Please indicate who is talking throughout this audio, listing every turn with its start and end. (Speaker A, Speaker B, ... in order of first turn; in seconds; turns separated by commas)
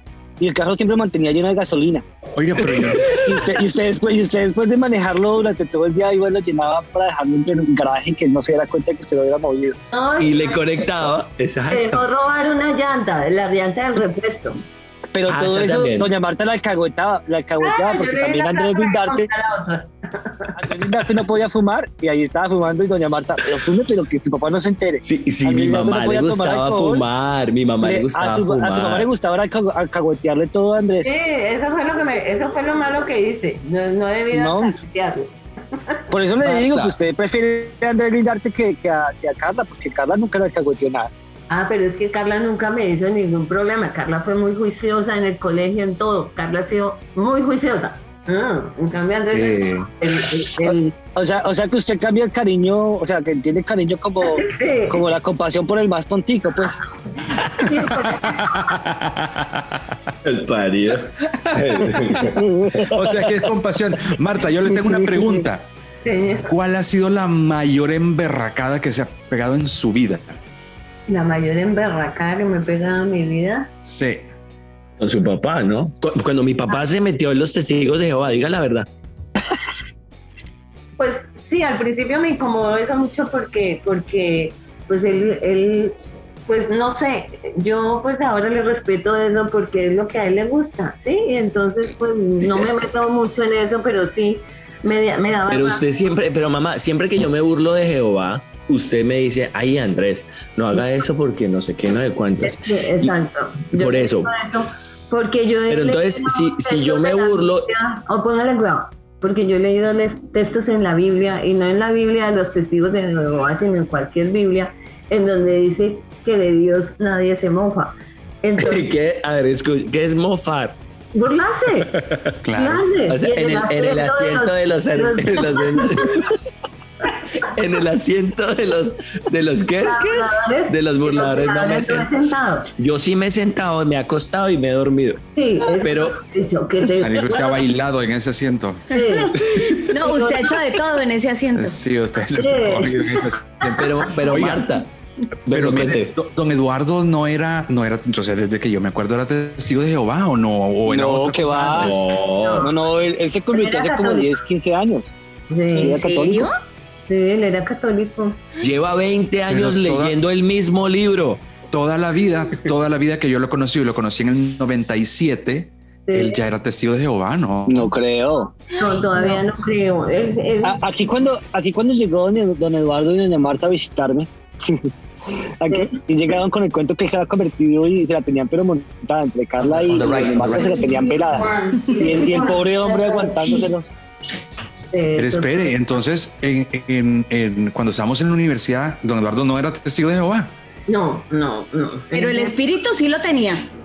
Speaker A: 0.4-2.0, Speaker B: 2.3-3.1, Speaker C: 2.6-3.6, Speaker A: 3.1-9.8, Speaker D: 9.9-11.1, Speaker C: 10.2-12.0, Speaker D: 11.7-14.6, Speaker A: 15.1-19.3, Speaker C: 15.2-16.1, Speaker D: 17.6-20.6, Speaker A: 20.6-27.0, Speaker C: 25.0-29.1, Speaker A: 27.8-31.1, Speaker D: 31.0-35.3, Speaker A: 34.3-34.8, Speaker A: 36.1-41.1, Speaker C: 36.4-36.9, Speaker D: 41.5-50.9, Speaker C: 49.3-49.9, Speaker A: 50.6-56.8, Speaker D: 54.2-55.0, Speaker D: 57.4-58.8, Speaker B: 58.2-59.9, Speaker C: 60.2-62.4, Speaker B: 61.5-62.1, Speaker A: 62.2-63.0, Speaker B: 62.8-65.7, Speaker D: 65.1-65.4, Speaker D: 66.0-66.5, Speaker B: 66.5-70.4, Speaker D: 71.1-73.7, Speaker B: 73.8-74.2, Speaker C: 75.0-78.9, Speaker D: 81.0-85.9, Speaker D: 86.5-95.8, Speaker C: 95.5-103.1, Speaker D: 102.4-118.9, Speaker C: 103.8-104.3, Speaker C: 105.7-107.7, Speaker C: 118.6-120.8, Speaker D: 121.1-121.9, Speaker C: 121.9-122.4, Speaker B: 122.4-122.9, Speaker D: 122.5-126.1, Speaker C: 123.1-126.3, Speaker C: 127.4-132.1, Speaker D: 129.8-132.7, Speaker C: 132.8-135.2, Speaker D: 135.3-137.5, Speaker C: 135.8-136.2, Speaker B: 137.0-138.9, Speaker D: 138.9-140.5, Speaker E: 139.7-141.8, Speaker B: 141.5-144.7, Speaker D: 142.3-143.3, Speaker C: 143.7-144.9, Speaker C: 145.4-146.1, Speaker B: 145.5-152.1, Speaker A: 150.8-155.1, Speaker C: 151.7-152.7, Speaker D: 152.4-152.7, Speaker D: 153.5-154.3, Speaker D: 155.5-156.0, Speaker E: 155.7-156.6, Speaker A: 155.8-156.5, Speaker D: 157.1-158.4, Speaker C: 158.6-161.4, Speaker B: 159.5-160.2, Speaker B: 161.7-167.9, Speaker D: 166.1-166.4, Speaker A: 167.7-168.5, Speaker D: 168.7-170.8, Speaker A: 170.6-174.9, Speaker A: 175.6-183.9, Speaker C: 179.6-181.2, Speaker D: 180.9-183.7, Speaker D: 184.9-185.8, Speaker B: 185.2-190.5, Speaker D: 190.9-192.6, Speaker E: 192.1-193.7